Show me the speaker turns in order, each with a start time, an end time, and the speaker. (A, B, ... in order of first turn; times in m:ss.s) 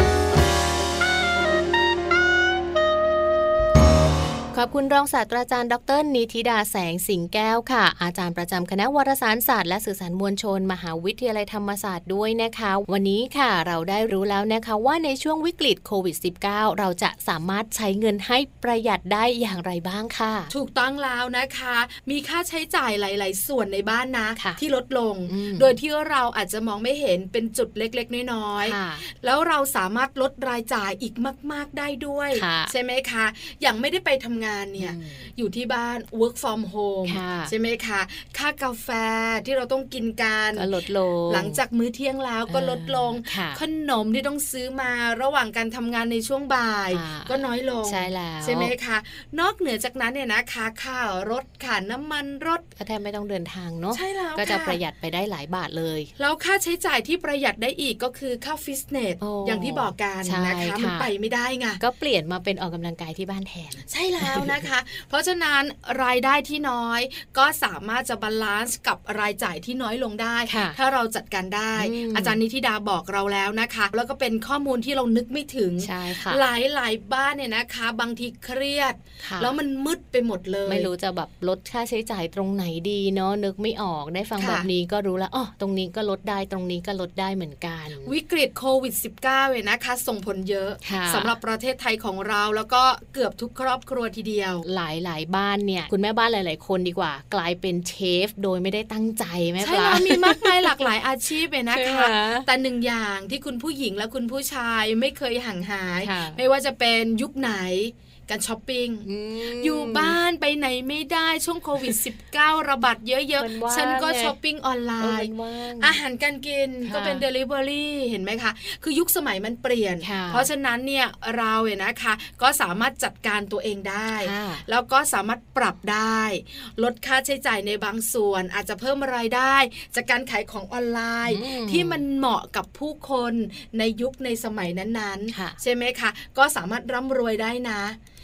0:04.5-0:20.5 A
0:20.5-0:40.7 B
0:25.3-0:25.7 A
0:28.6-0:29.0 A
0:32.3-0:32.7 A
0:34.8-0:35.3 A
0:37.0-0:37.5 A
0:40.5-0:41.6 A
0:41.3-0:52.6 B
0:42.5-0:43.6 A
0:46.9-0:48.7 A
0:52.8-0:56.1 A
0:53.9-0:54.8 B
0:56.2-1:01.8 B
0:59.2-1:01.1 A
1:01.8-1:04.7 A
1:03.9-1:20.9 B
1:10.5-1:10.8 A
1:11.8-1:12.4 A
1:15.8-1:16.4 A
1:19.2-1:19.5 A
1:20.6-1:28.1 A
1:24.4-1:24.6 B
1:28.0-1:34.6 B
1:30.8-1:31.3 A
1:34.6-1:40.9 A
1:39.6-1:49.1 B
1:41.7-1:42.5 A
1:46.0-1:46.4 A
1:49.0-1:50.2 A
1:49.6-2:18.0 B
1:53.4-1:54.3 A
1:55.0-1:56.0 A
1:56.8-1:57.2 A
2:00.0-2:00.5 A
2:04.2-2:04.6 A
2:11.3-2:12.0 A
2:15.3-2:15.6 A